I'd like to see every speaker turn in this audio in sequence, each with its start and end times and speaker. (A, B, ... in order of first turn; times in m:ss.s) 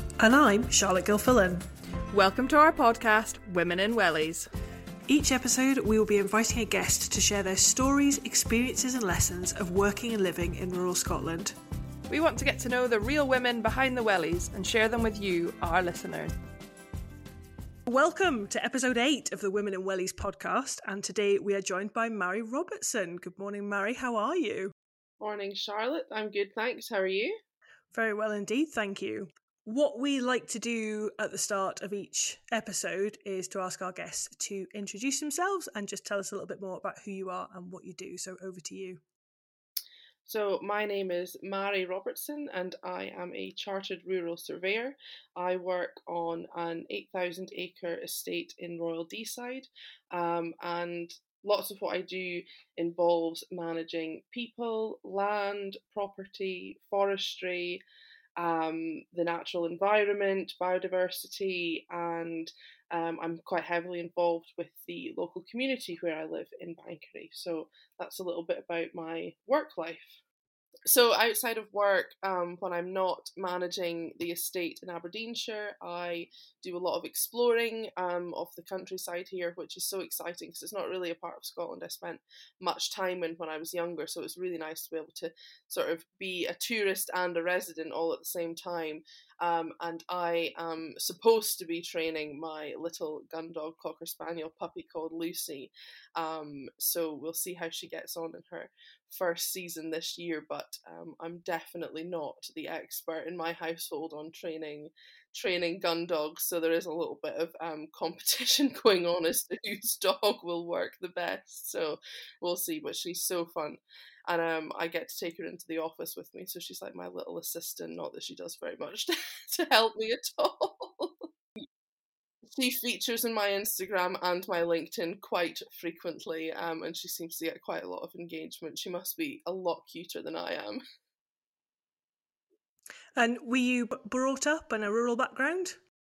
0:00.2-0:01.6 A
0:02.1-0:04.5 B
0:05.1-0:11.5 A
0:12.1-0:16.3 B
0:17.9-0:24.7 A
0:25.2-0:27.4 C
0:27.9-0:39.0 A
0:40.3-0:57.8 C
0:58.4-1:10.2 C
1:10.9-2:01.3 C
2:02.5-2:10.8 C
2:13.2-2:15.8 A